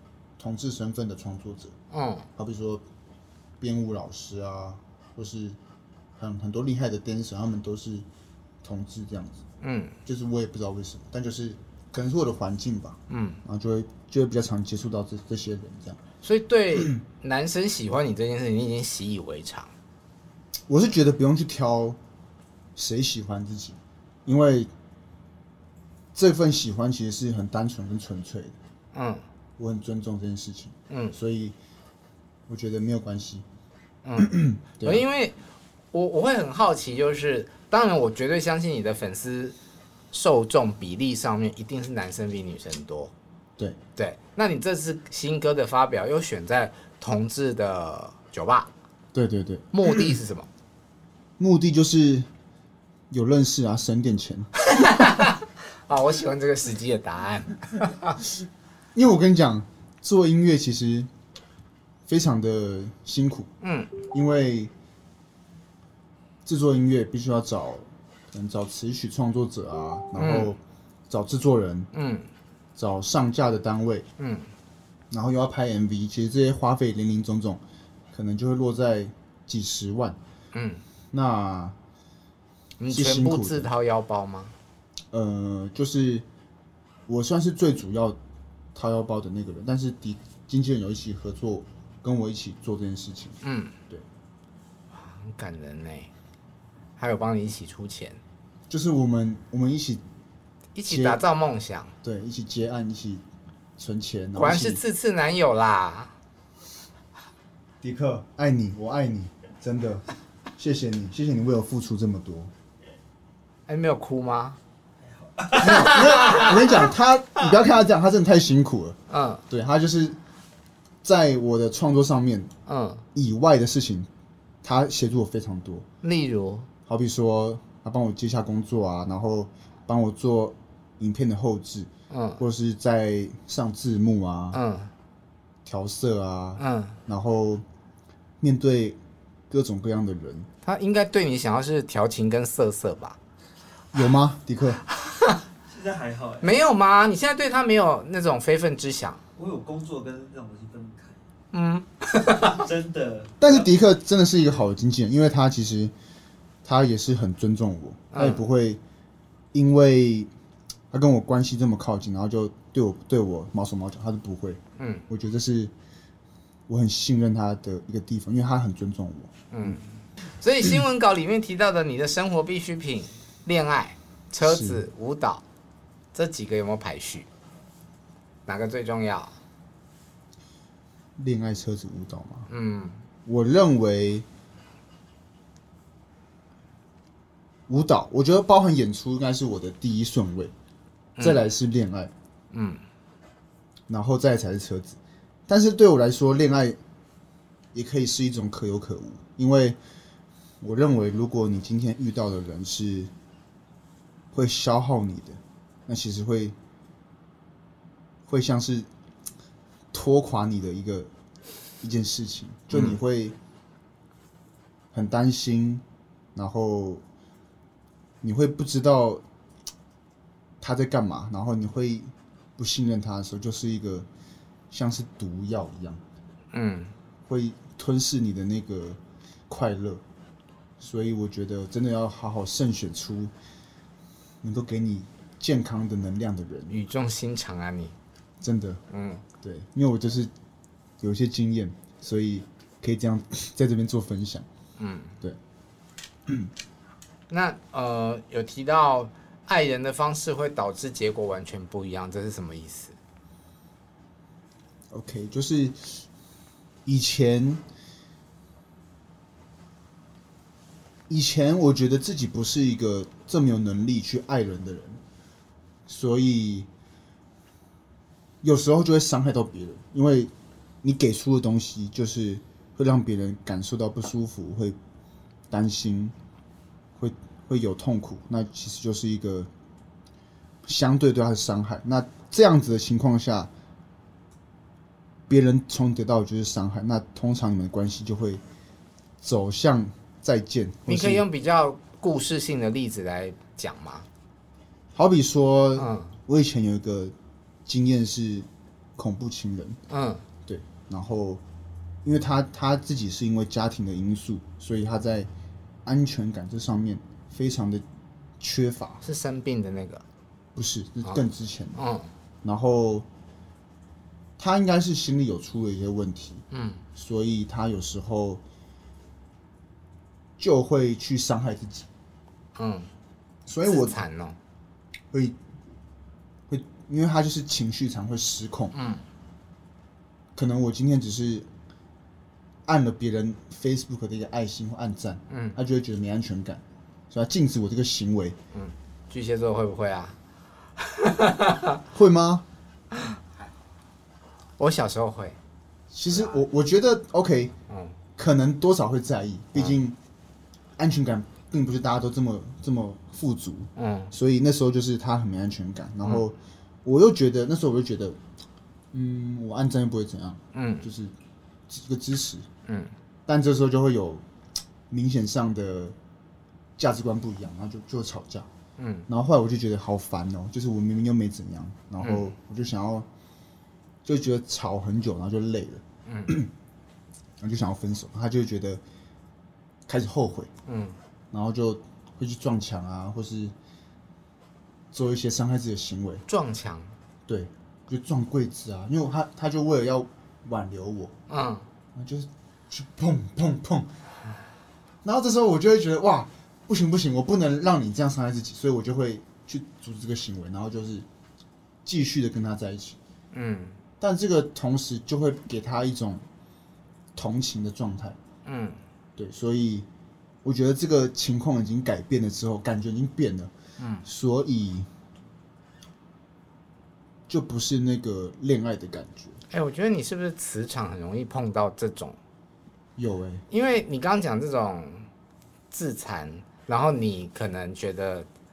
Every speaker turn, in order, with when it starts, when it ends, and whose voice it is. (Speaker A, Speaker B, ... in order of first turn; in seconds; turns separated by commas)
Speaker A: 0.4-1.7, Speaker B: 1.9-2.2, Speaker A: 2.4-2.8, Speaker A: 3.6-5.6, Speaker A: 6.2-8.1, Speaker A: 8.6-9.4, Speaker B: 9.6-9.9, Speaker A: 10.0-16.0, Speaker B: 13.1-13.4, Speaker B: 16.2-19.7, Speaker A: 20.7-22.0, Speaker A: 22.8-24.7, Speaker A: 26.1-28.6, Speaker B: 28.9-29.2, Speaker A: 29.6-31.6, Speaker B: 30.9-31.1, Speaker A: 32.5-33.4, Speaker B: 34.0-35.3, Speaker A: 34.2-35.0, Speaker B: 35.9-39.5, Speaker B: 40.1-43.1, Speaker B: 44.0-48.7, Speaker A: 49.1-50.1, Speaker B: 49.7-50.5, Speaker A: 51.4-52.3, Speaker A: 53.1-54.5, Speaker B: 54.6-58.2, Speaker A: 58.9-61.1, Speaker A: 62.1-63.5, Speaker B: 63.6-63.9, Speaker A: 64.1-64.7, Speaker A: 66.4-71.9, Speaker B: 70.2-70.5, Speaker B: 71.9-72.3, Speaker A: 72.8-74.1, Speaker B: 74.2-74.5, Speaker A: 75.1-77.6, Speaker A: 78.1-80.2, Speaker B: 80.5-80.8, Speaker A: 81.1-81.8, Speaker B: 82.8-84.5, Speaker A: 82.9-83.7, Speaker A: 85.1-86.2, Speaker A: 87.1-88.2, Speaker A: 88.7-94.0, Speaker B: 93.4-93.7, Speaker B: 94.9-96.1, Speaker B: 97.0-98.2, Speaker A: 98.7-100.0, Speaker B: 100.8-101.9, Speaker A: 100.8-101.2, Speaker A: 102.0-103.2, Speaker A: 103.8-104.8, Speaker B: 104.3-106.1, Speaker A: 107.8-110.0, Speaker A: 110.6-112.5, Speaker B: 113.7-114.6, Speaker C: 115.1-116.4, Speaker A: 115.5-119.0, Speaker B: 115.5-116.5, Speaker B: 119.1-119.4, Speaker A: 119.5-120.2, Speaker A: 121.0-122.5, Speaker B: 122.7-123.0, Speaker A: 123.1-124.1, Speaker A: 124.6-125.8, Speaker B: 126.0-126.7, Speaker A: 126.9-134.6, Speaker B: 132.1-132.4, Speaker B: 134.5-134.9, Speaker A: 135.6-137.6, Speaker B: 136.6-136.9, Speaker A: 138.4-139.0, Speaker A: 139.5-140.5, Speaker B: 140.6-143.2, Speaker A: 143.9-144.8, Speaker B: 145.0-145.4, Speaker C: 145.7-146.5, Speaker B: 146.4-149.2, Speaker C: 149.3-151.2, Speaker B: 151.5-152.6, Speaker C: 152.3-153.7, Speaker A: 153.4-155.9, Speaker A: 156.6-158.8, Speaker B: 158.1-158.4, Speaker A: 159.5-160.3, Speaker A: 160.9-165.7, Speaker B: 164.8-165.0, Speaker A: 166.7-169.8, Speaker B: 169.5-169.8, Speaker B: 170.4-175.4, Speaker A: 174.4-174.8, Speaker B: 176.1-177.3, Speaker B: 178.5-179.3, Speaker A: 181.2-182.5, Speaker B: 182.5-183.0, Speaker A: 183.2-184.2, Speaker A: 187.7-190.5, Speaker B: 191.2-191.4, Speaker A: 191.2-192.1, Speaker B: 192.5-192.8, Speaker A: 193.9-196.8, Speaker A: 197.7-199.8, Speaker A: 200.6-203.1, Speaker A: 204.3-206.6, Speaker A: 208.3-208.9, Speaker A: 209.9-211.1, Speaker A: 211.8-213.3, Speaker B: 212.7-213.0, Speaker A: 214.9-215.8, Speaker A: 216.3-217.0, Speaker A: 218.2-219.2, Speaker A: 220.6-224.1, Speaker A: 224.7-226.0, Speaker B: 226.5-226.9, Speaker A: 227.3-230.0, Speaker A: 230.8-233.3, Speaker A: 234.4-236.8, Speaker B: 236.7-237.9, Speaker A: 238.4-238.8, Speaker B: 238.9-239.2, Speaker A: 239.4-240.3, Speaker A: 241.0-244.5, Speaker B: 244.8-245.1, Speaker B: 247.3-253.0, Speaker A: 254.9-256.0, Speaker A: 256.8-257.6, Speaker A: 261.1-265.0, Speaker A: 265.9-266.7, Speaker A: 268.4-270.3, Speaker A: 270.8-274.8, Speaker A: 275.5-276.1, Speaker A: 276.9-279.5, Speaker A: 280.6-283.5, Speaker A: 285.3-288.4, Speaker A: 289.2-291.2, Speaker B: 290.9-294.1, Speaker A: 294.9-297.1, Speaker B: 295.8-296.1, Speaker A: 297.6-299.8, Speaker B: 299.9-300.2, Speaker A: 300.4-301.4, Speaker A: 302.0-305.3, Speaker A: 305.8-307.8, Speaker A: 308.4-309.0, Speaker B: 309.0-310.0, Speaker A: 310.5-311.8, Speaker B: 311.8-312.1, Speaker A: 312.4-313.1, Speaker A: 314.4-316.4, Speaker B: 316.5-316.8, Speaker A: 316.9-318.4, Speaker A: 320.4-321.9, Speaker B: 322.6-322.9, Speaker A: 323.4-324.0, Speaker B: 323.6-324.4, Speaker A: 325.1-325.4, Speaker A: 326.5-328.7, Speaker B: 328.7-329.0, Speaker A: 330.3-331.5, Speaker A: 332.6-338.4, Speaker B: 335.3-335.6, Speaker B: 338.5-340.1, Speaker B: 340.8-341.8, Speaker A: 341.9-342.4, Speaker B: 344.6-345.4, Speaker A: 345.9-347.5, Speaker B: 347.7-347.9, Speaker A: 348.2-350.0, Speaker A: 350.8-358.2, Speaker B: 353.8-354.1, Speaker A: 358.9-361.1, Speaker B: 360.5-360.9, Speaker A: 361.7-362.5, Speaker B: 362.7-362.9, Speaker A: 363.2-364.2, Speaker A: 364.9-365.9, Speaker A: 366.8-368.5, Speaker B: 368.8-369.1, Speaker A: 369.1-373.1, Speaker B: 372.0-372.3, Speaker A: 374.0-376.5, Speaker B: 376.1-376.4, Speaker A: 377.4-378.8, Speaker A: 379.9-380.5, Speaker B: 380.7-380.9, Speaker A: 381.3-383.5, Speaker A: 384.9-386.2, Speaker B: 386.3-386.9, Speaker A: 387.3-391.1, Speaker B: 391.3-391.6, Speaker A: 391.9-393.9, Speaker A: 395.0-401.1, Speaker A: 401.8-403.0, Speaker B: 403.3-403.8, Speaker A: 404.0-406.2, Speaker A: 407.1-408.2, Speaker B: 408.4-408.8, Speaker A: 409.2-409.9, Speaker A: 410.4-413.5, Speaker B: 413.8-414.0, Speaker A: 414.0-414.9, Speaker A: 417.3-419.4, Speaker B: 419.5-422.2, Speaker A: 423.0-423.4, Speaker B: 423.5-425.1, Speaker B: 425.7-428.3